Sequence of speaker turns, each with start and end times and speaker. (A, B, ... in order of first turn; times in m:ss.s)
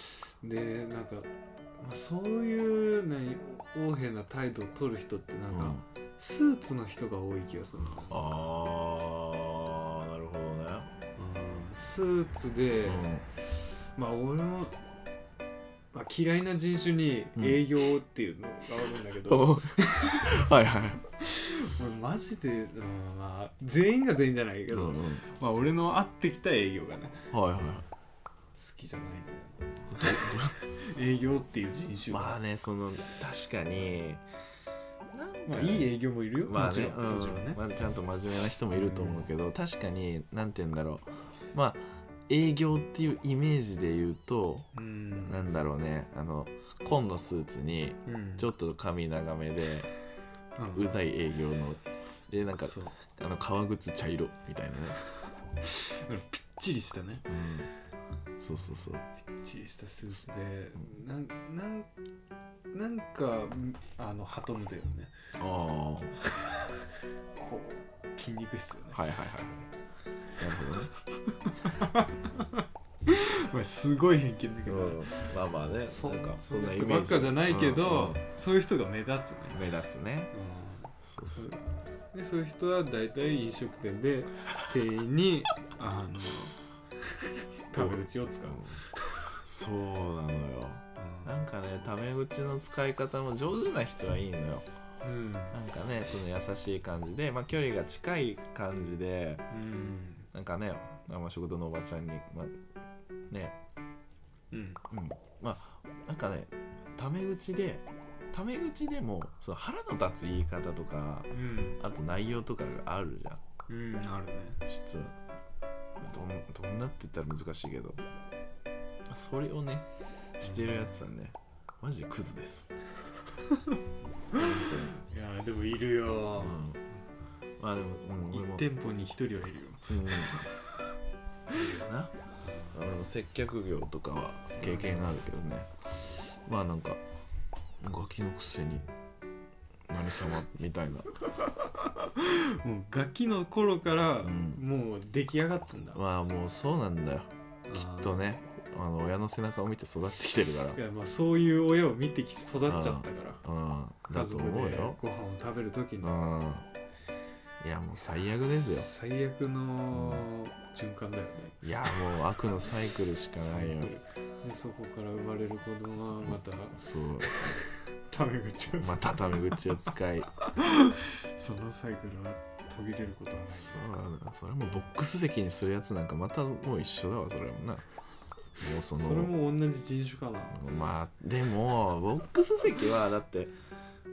0:00.3-0:08.2 A
0:05.5-0:05.8 B
0:08.1-0:10.9 B
0:11.2-0:13.1 A
0:12.9-0:13.2 B
0:14.0-0:14.8 A
0:15.9-0:20.4 A
0:17.4-0:17.7 B
0:19.3-0:21.0 B
0:21.1-0:27.2 A
0:24.7-0:25.2 B
0:27.3-0:27.9 B
0:28.6-0:32.4 A
0:29.9-0:30.5 B
0:32.1-0:34.2 B
0:35.1-0:35.9 B
0:35.5-0:37.6 A
0:36.4-0:44.7 B
0:38.7-0:39.3 A
0:44.7-0:45.5 A
0:45.3-0:49.9 B
0:48.1-0:48.5 A
0:50.6-0:50.9 A
0:50.7-0:55.0 B
0:52.6-0:53.0 A
0:55.6-0:57.3 A
0:57.3-0:57.7 B
0:58.4-0:59.0 B
0:58.5-1:01.9 A
1:02.7-1:05.1 A
1:05.4-1:06.2 B
1:06.2-1:06.8 A
1:07.4-1:09.0 A
1:08.9-1:09.6 B
1:10.4-1:10.9 B
1:10.6-1:15.3 A
1:14.7-1:18.2 B
1:15.9-1:19.6 A
1:19.5-1:20.3 B
1:20.3-1:21.6 A
1:21.0-1:21.6 B
1:22.1-1:29.4 A
1:27.7-1:28.8 B
1:29.4-1:34.7 B
1:31.0-1:31.3 A
1:35.0-1:35.6 A
1:35.5-1:39.4 B
1:39.5-1:40.3 A
1:40.3-1:42.5 B
1:43.3-1:43.6 B
1:44.5-1:44.8 A
1:44.9-1:53.4 B
1:51.3-1:51.8 A
1:53.7-1:54.6 A
1:54.6-1:55.2 B
1:56.0-1:58.0 B
1:59.1-1:59.9 B
2:00.4-2:02.7 B
2:00.5-2:00.8 A
2:04.3-2:04.9 B
2:04.3-2:06.7 A
2:06.4-2:06.8 B
2:07.6-2:08.7 B
2:08.3-2:10.5 A
2:09.9-2:10.4 B
2:11.5-2:12.1 B
2:12.4-2:12.8 A
2:12.7-2:15.7 B
2:14.6-2:15.2 A
2:16.4-2:17.0 B
2:17.8-2:18.9 B
2:19.9-2:21.1 B
2:21.8-2:26.0 A
2:24.2-2:24.6 B
2:26.0-2:30.8 B
2:27.7-2:28.3 A
2:30.7-2:33.4 A
2:32.7-2:35.0 B
2:34.1-2:36.2 A
2:36.0-2:36.7 B
2:37.6-2:38.9 B
2:38.7-2:41.6 A
2:39.9-2:40.2 B
2:41.6-2:43.9 B
2:43.4-2:49.6 A
2:46.2-2:47.6 B
2:48.8-2:50.3 B
2:50.4-2:53.8 A
2:53.5-2:57.8 B
2:58.6-2:59.3 B
2:58.9-3:00.6 A
3:00.5-3:03.5 B